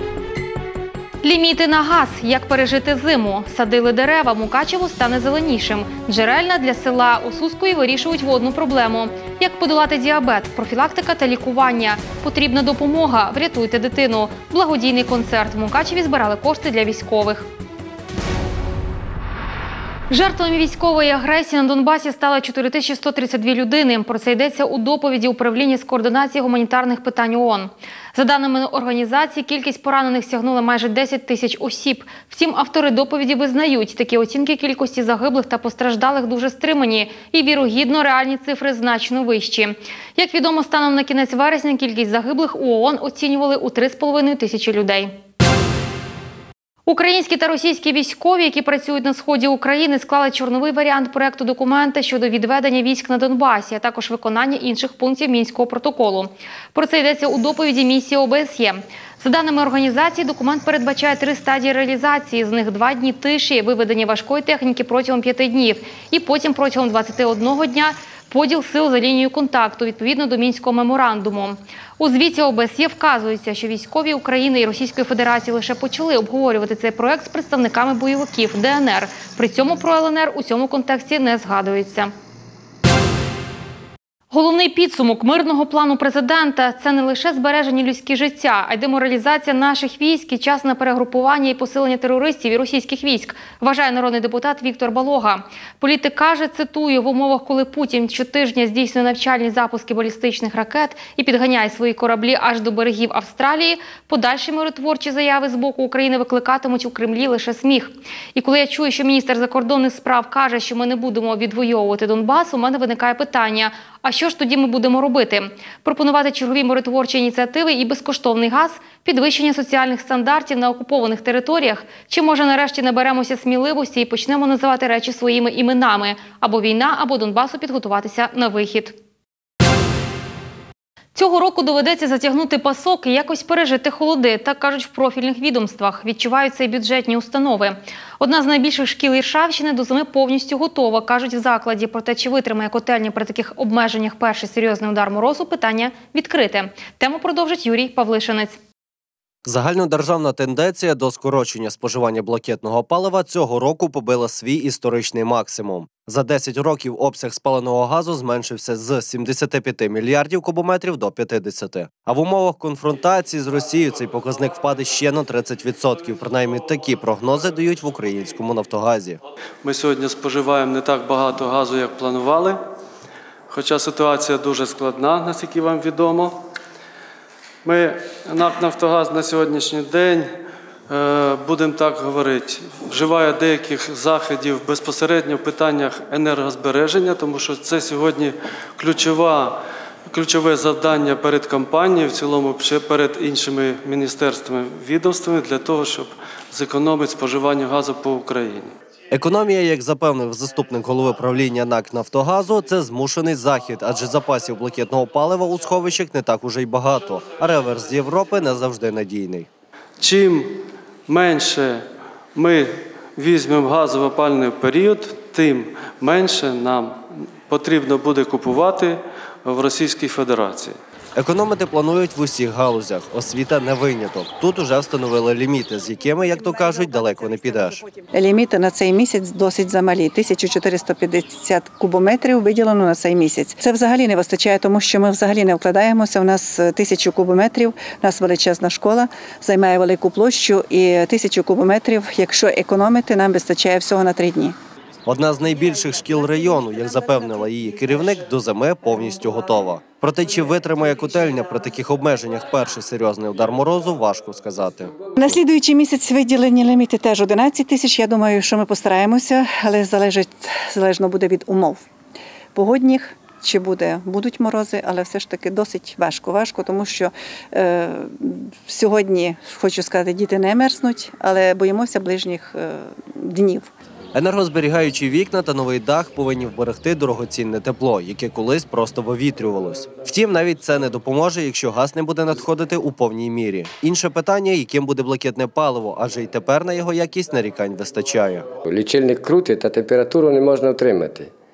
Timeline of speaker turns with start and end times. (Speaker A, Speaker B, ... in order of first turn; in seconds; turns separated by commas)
Speaker A: 1.2-17.5, Speaker A: 20.1-45.2, Speaker A: 46.9-82.1, Speaker A: 84.3-129.0, Speaker A: 131.2-148.6, Speaker B: 149.4-169.2, Speaker C: 169.6-172.6, Speaker C: 173.5-176.5, Speaker C: 177.6-198.7, Speaker B: 199.1-209.5, Speaker C: 210.0-220.8, Speaker B: 221.2-227.8, Speaker D: 228.2-244.5, Speaker B: 245.1-255.4, Speaker D: 255.2-261.8, Speaker D: 262.6-268.1, Speaker D: 268.7-272.6, Speaker D: 273.2-273.6, Speaker B: 274.1-288.5, Speaker E: 288.6-291.3